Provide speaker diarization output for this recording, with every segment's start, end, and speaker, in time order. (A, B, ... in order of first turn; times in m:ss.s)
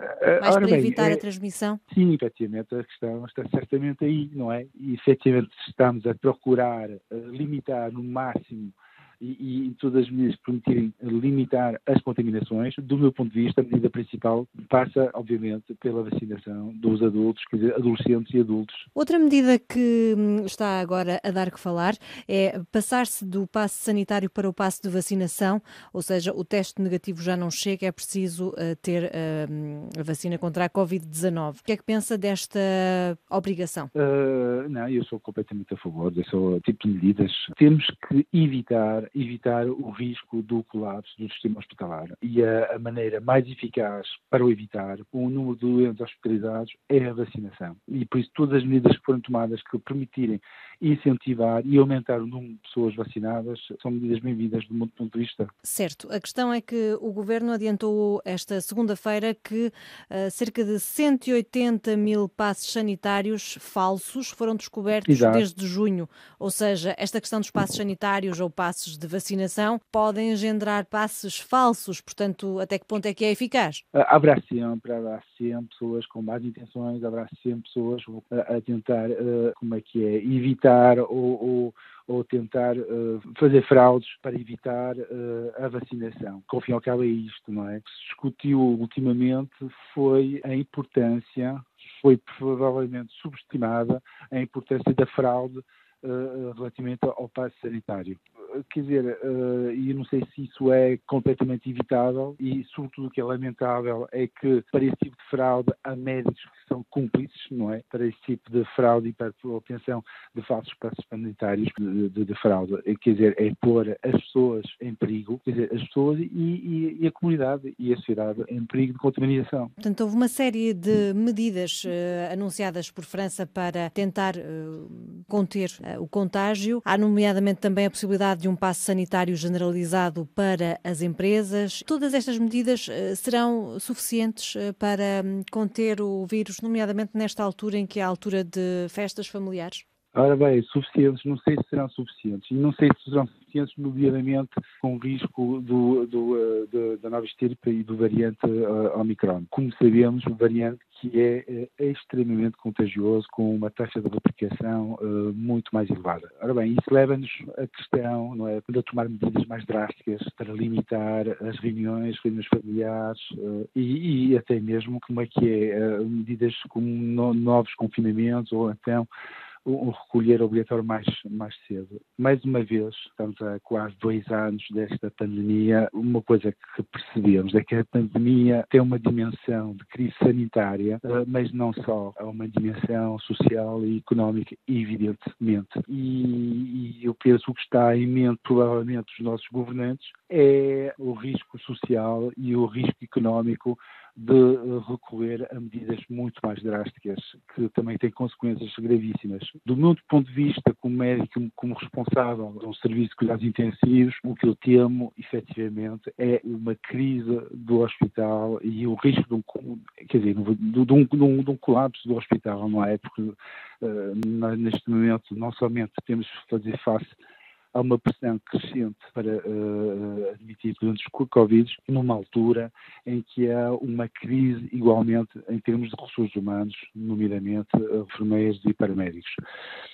0:00.2-0:01.2 A
0:00.4-0:01.8 B
0:01.9-0:18.9 A
0:18.9-0:33.9 B
0:33.9-0:55.5 A
0:55.6-1:13.8 B
1:05.1-1:05.4 A
1:13.9-1:59.7 A
1:59.8-2:19.8 B
2:20.1-2:49.1 A
2:49.6-3:37.2 A
3:37.7-3:49.4 A